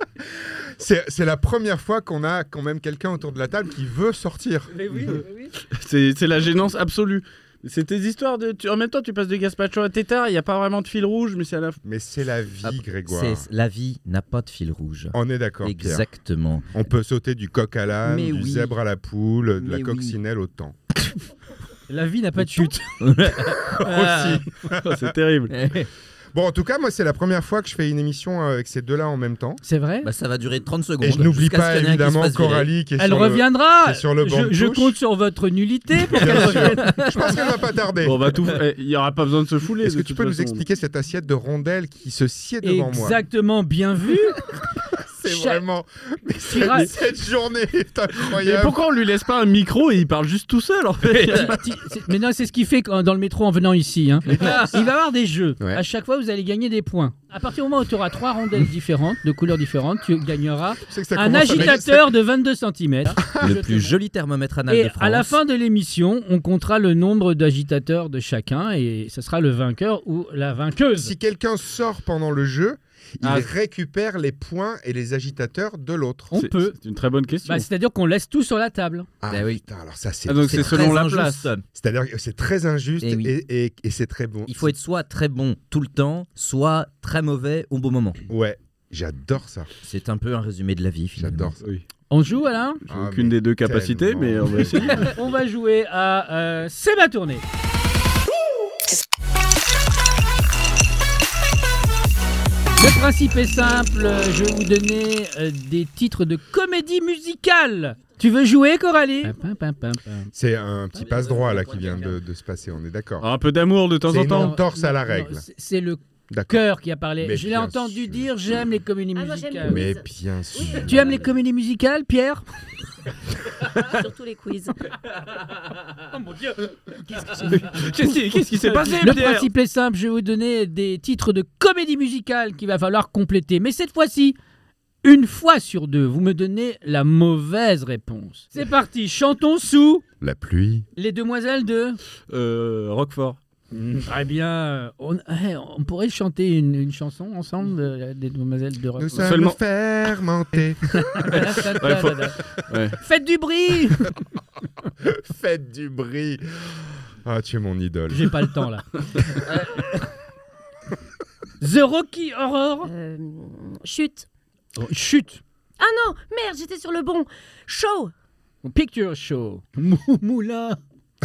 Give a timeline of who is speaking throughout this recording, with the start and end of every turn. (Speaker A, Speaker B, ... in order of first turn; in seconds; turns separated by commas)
Speaker A: 0.6-4.7, Speaker B: 4.7-5.5, Speaker C: 5.7-11.8, Speaker A: 11.8-13.5, Speaker D: 12.6-16.7, Speaker A: 15.1-16.0, Speaker A: 16.7-20.8, Speaker D: 18.0-18.7, Speaker D: 19.6-20.2, Speaker B: 21.9-22.9, Speaker D: 23.0-24.4, Speaker A: 23.7-25.1, Speaker C: 24.8-25.5, Speaker D: 25.5-25.9, Speaker A: 26.3-29.6, Speaker B: 29.6-30.1, Speaker D: 30.0-32.7, Speaker A: 31.0-35.0, Speaker B: 33.0-36.9, Speaker A: 36.1-38.2, Speaker C: 36.2-36.7, Speaker D: 36.8-37.2, Speaker C: 38.0-40.6, Speaker A: 39.8-43.2, Speaker B: 42.6-44.4, Speaker A: 45.1-48.8, Speaker B: 45.2-45.6, Speaker B: 46.4-46.9, Speaker C: 48.3-51.5, Speaker B: 51.3-64.0, Speaker A: 60.8-62.1, Speaker A: 63.2-63.5, Speaker D: 63.4-65.3, Speaker B: 64.7-71.1, Speaker A: 71.0-76.3, Speaker C: 73.2-73.5, Speaker B: 76.3-76.8, Speaker C: 76.3-77.7, Speaker B: 77.4-79.1, Speaker A: 79.2-80.9, Speaker D: 79.3-79.6, Speaker C: 80.3-81.5, Speaker D: 80.4-81.6, Speaker A: 81.7-84.8, Speaker D: 83.0-83.3, Speaker D: 84.5-88.2, Speaker A: 88.3-89.7, Speaker D: 89.8-91.5, Speaker A: 91.2-91.6, Speaker B: 92.1-92.8, Speaker C: 92.9-95.1, Speaker A: 92.9-95.1, Speaker B: 95.0-97.4, Speaker B: 102.8-110.3, Speaker A: 110.3-113.3, Speaker D: 111.0-112.2, Speaker C: 113.2-114.5, Speaker A: 114.1-115.4, Speaker B: 114.3-119.8, Speaker A: 116.3-116.6, Speaker A: 117.2-118.3, Speaker E: 119.1-121.0, Speaker A: 119.7-121.3, Speaker B: 120.7-122.4, Speaker E: 123.7-124.8, Speaker B: 126.1-127.9, Speaker C: 127.5-129.5, Speaker B: 128.6-134.3, Speaker B: 135.0-140.0, Speaker A: 140.2-140.8, Speaker B: 140.9-142.0, Speaker C: 142.3-143.4, Speaker B: 143.7-149.3, Speaker A: 149.0-151.5, Speaker C: 149.1-149.6, Speaker B: 151.0-152.4, Speaker C: 151.3-153.0, Speaker B: 153.0-154.1, Speaker A: 155.0-158.3, Speaker B: 158.1-160.0, Speaker B: 161.6-162.9, Speaker E: 162.8-164.2, Speaker B: 164.8-165.4, Speaker E: 165.8-168.1, Speaker B: 168.6-170.8